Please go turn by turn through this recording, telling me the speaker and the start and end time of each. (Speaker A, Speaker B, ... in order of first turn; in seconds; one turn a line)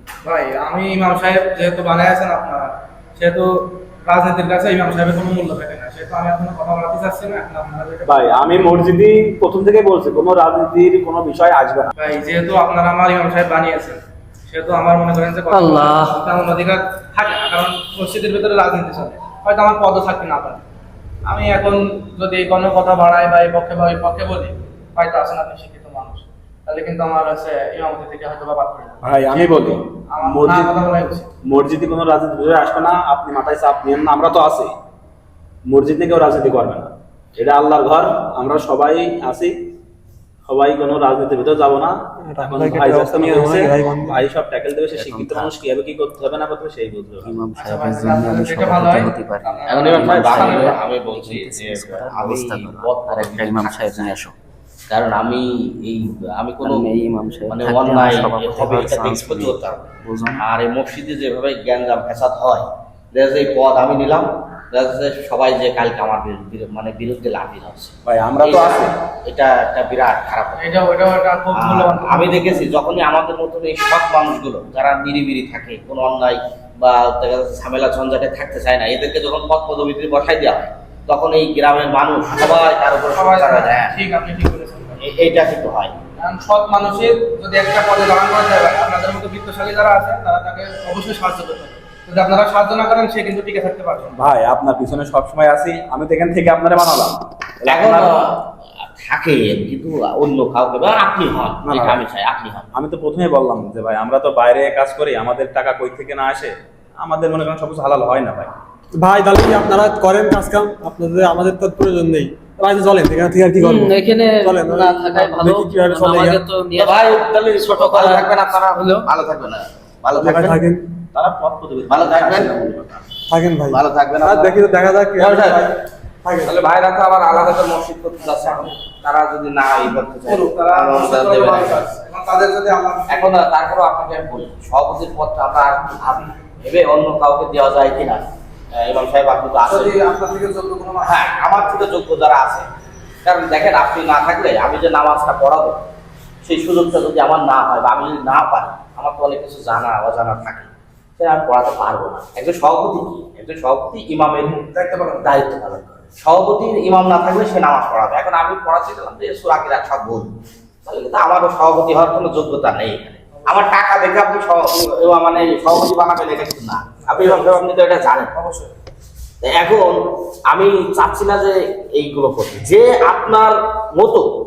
Speaker A: 0.2-8.4
Speaker B: 8.1-11.9
Speaker A: 11.9-20.6
Speaker C: 15.5-16.1
Speaker A: 21.2-31.3
Speaker B: 29.0-30.7
Speaker B: 31.4-34.7
Speaker B: 35.6-39.5
Speaker B: 40.5-47.3
Speaker D: 42.2-44.2
Speaker C: 44.9-45.5
Speaker C: 47.2-54.3
Speaker A: 47.6-50.8
Speaker E: 49.7-54.1
Speaker B: 50.0-50.4
Speaker E: 54.9-56.9
Speaker C: 56.6-60.4
Speaker E: 57.5-59.9
Speaker E: 60.4-70.7
Speaker B: 68.0-68.9
Speaker A: 70.6-72.6
Speaker E: 71.5-83.9
Speaker A: 82.3-85.0
Speaker E: 85.0-85.9
Speaker A: 86.2-94.2
Speaker B: 94.2-98.1
Speaker E: 97.7-102.7
Speaker B: 101.6-102.0
Speaker B: 102.7-108.5
Speaker D: 109.0-116.4
Speaker C: 113.6-119.1
Speaker E: 116.8-120.6
Speaker D: 120.2-120.9
Speaker B: 121.1-123.0
Speaker E: 121.9-122.6
Speaker D: 123.3-126.5
Speaker E: 123.7-125.6
Speaker E: 126.4-131.8
Speaker A: 130.2-133.3
Speaker E: 133.1-140.0
Speaker A: 139.7-141.6
Speaker E: 141.0-142.7
Speaker E: 143.2-145.8
Speaker E: 146.4-154.6
Speaker A: 154.5-155.3
Speaker E: 155.2-160.3
Speaker E: 160.8-168.3
Speaker A: 167.0-167.6
Speaker A: 168.3-168.7
Speaker E: 169.4-174.3